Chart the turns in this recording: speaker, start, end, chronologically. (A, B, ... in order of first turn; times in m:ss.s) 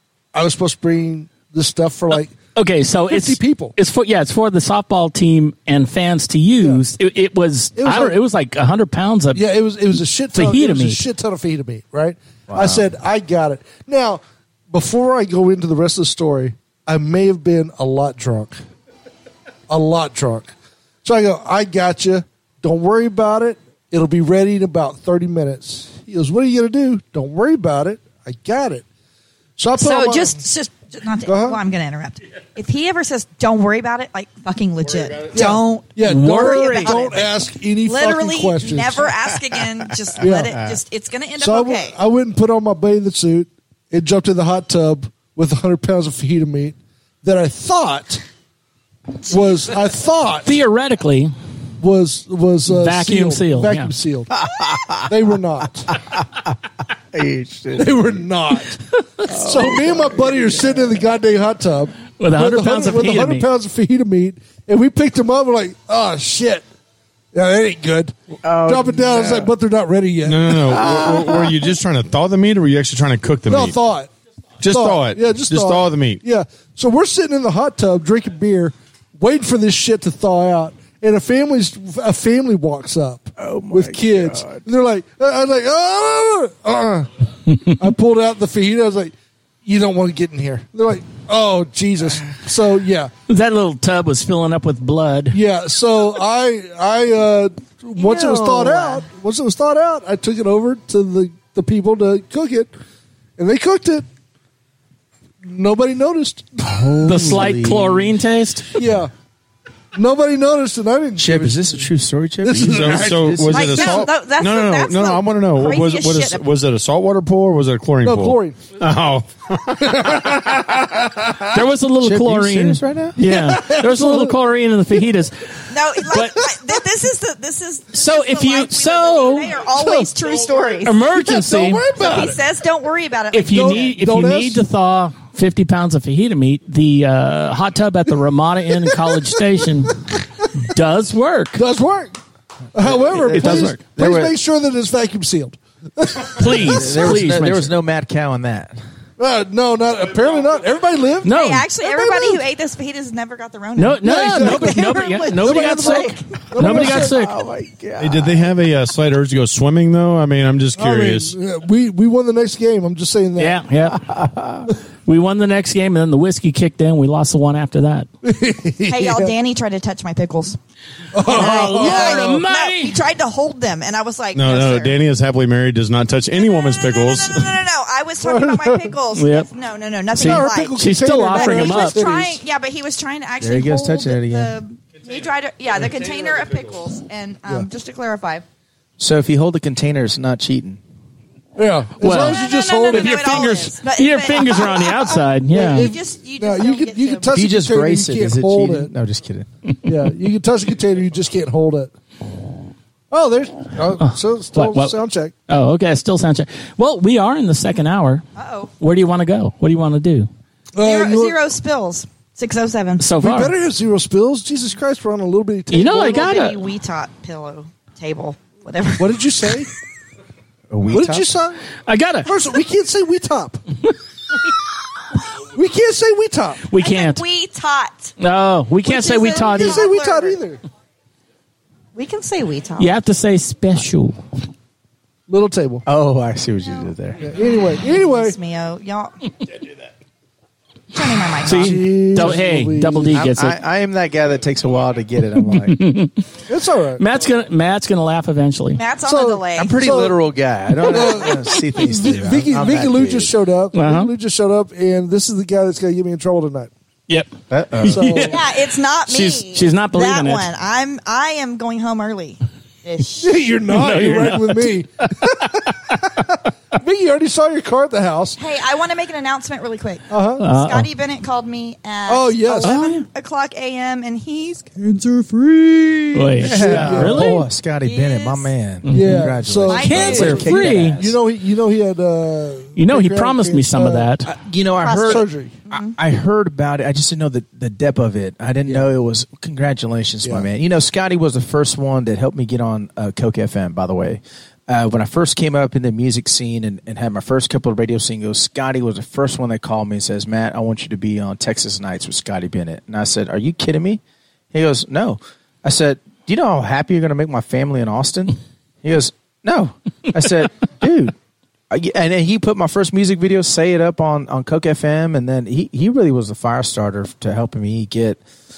0:00.3-0:02.3 A
0:02.1-0:09.4 B
0:03.1-0:03.8 A
0:07.8-0:08.2 A
0:09.4-0:18.6 A
0:10.3-0:11.0 B
0:12.5-0:12.9 C
0:19.7-0:20.5 A
0:21.0-0:28.8 A
0:29.6-0:30.4 A
0:29.7-0:37.3 D
0:31.3-0:31.6 A
0:35.3-0:39.1 A
0:36.0-0:37.2 B
0:37.8-0:42.0 D
0:40.2-0:40.6 A
0:41.4-0:48.2 A
0:49.3-0:50.6 A
0:50.4-0:51.3 B
0:51.8-0:54.3 A
0:52.7-0:53.9 B
0:54.3-0:55.1 C
0:55.1-0:55.9 A
0:55.9-0:56.6 C
0:57.1-0:58.2 C
0:57.8-1:06.6 A
0:59.3-1:01.0 C
1:02.2-1:03.5 B
1:07.3-1:10.8 A
1:08.4-1:09.5 C
1:10.2-1:13.8 E
1:10.6-1:11.6 C
1:13.5-1:14.1 A
1:14.6-1:16.2 E
1:14.7-1:27.1 A
1:23.4-1:24.6 C
1:27.6-1:29.1 A
1:29.6-1:33.1 A
1:33.3-1:35.4 B
1:35.3-1:42.7 A
1:38.0-1:39.1 D
1:43.4-1:44.1 A
1:45.4-1:46.5 A
1:46.6-1:48.1 C
1:47.0-1:48.7 B
1:48.8-1:49.1 A
1:50.0-1:51.8 A
1:51.2-1:54.1 C
1:52.4-1:53.4 A
1:52.6-2:00.4 E
1:53.5-1:56.4 D
1:58.0-1:58.6 A
1:59.8-2:01.5 A
2:01.5-2:05.6 B
2:02.0-2:03.2 C
2:03.2-2:04.4 A
2:05.7-2:11.0 D
2:06.1-2:06.4 B
2:07.9-2:09.5 B
2:09.8-2:10.1 A
2:10.8-2:11.9 B
2:11.1-2:12.4 A
2:12.0-2:14.0 D
2:13.3-2:20.0 B
2:13.5-2:14.6 A
2:18.9-2:19.3 A
2:20.6-2:21.6 B
2:21.6-2:22.1 A
2:22.7-2:27.1 A
2:22.8-2:24.4 C
2:23.3-2:23.8 B
2:26.4-2:27.7 B
2:26.5-2:28.8 C
2:29.2-2:31.3 A
2:31.2-2:31.7 B
2:31.3-2:36.2 D
2:31.8-2:32.4 A
2:33.8-2:37.3 B
2:34.0-2:37.1 A
2:36.6-2:38.5 C
2:38.0-2:41.4 E
2:40.8-2:43.6 A
2:43.4-2:44.0 B
2:43.8-2:44.7 C
2:45.1-2:48.1 B
2:48.2-2:49.4 A
2:48.9-2:50.6 D
2:51.1-2:52.3 A
2:51.3-2:55.0 D
2:51.3-2:53.0 B
2:54.4-2:57.5 E
2:56.4-3:08.4 D
2:58.2-2:58.9 A
2:59.2-2:59.5 B
3:00.2-3:02.0 B
3:00.2-3:02.4 A
3:03.4-3:04.6 C
3:09.0-3:10.8 C
3:11.6-3:13.6 A
3:12.0-3:15.9 B
3:12.1-3:17.4 D
3:15.5-3:18.9 A
3:17.3-3:19.5 C
3:19.9-3:21.9 A
3:23.1-3:25.3 A
3:24.0-3:25.0 B
3:25.5-3:28.2 B
3:28.4-3:28.7 D
3:28.8-3:30.3 B
3:30.7-3:31.4 A
3:30.8-3:33.0 D
3:33.0-3:33.6 B
3:33.2-3:36.4 A
3:35.7-3:36.6 B
3:35.9-3:39.2 D
3:39.0-3:39.7 A
3:40.7-3:41.3 C
3:40.9-3:41.6 A
3:41.9-3:42.3 B
3:42.2-3:43.6 A
3:45.5-3:46.6 A
3:46.7-3:47.2 B
3:46.8-3:48.1 D
3:48.2-3:49.9 B
3:48.8-3:50.4 D
3:49.4-3:50.6 A
3:52.0-3:52.9 D
3:52.8-3:54.2 B
3:55.3-3:55.8 A
3:55.9-3:57.2 C
3:57.2-3:58.4 A
3:57.8-3:59.1 D
4:00.9-4:01.8 D
4:01.4-4:03.6 B
4:01.5-4:03.2 A
4:03.1-4:05.8 C
4:05.4-4:06.2 B
4:06.5-4:07.0 A
4:07.0-4:08.8 B
4:08.8-4:09.8 D
4:09.1-4:10.2 A
4:09.6-4:13.3 C
4:10.9-4:16.7 A
4:13.8-4:14.1 B
4:17.1-4:18.4 B
4:17.5-4:18.2 C
4:17.9-4:18.3 A
4:18.3-4:23.4 D
4:19.1-4:20.5 B
4:23.2-4:28.4 A
4:23.7-4:25.1 B
4:28.4-4:34.7 D
4:30.1-4:30.5 A
4:30.4-4:30.9 B
4:32.1-4:32.8 A
4:32.6-4:33.0 B
4:34.8-4:37.4 A
4:36.1-4:37.4 B
4:36.4-4:41.2 C
4:37.8-4:38.5 D
4:38.9-4:41.0 B
4:38.9-4:44.1 A
4:39.7-4:40.5 D
4:42.8-4:44.3 B
4:44.2-5:11.2 C
4:44.8-4:46.0 D
4:44.9-4:45.6 A
5:11.7-5:18.2 C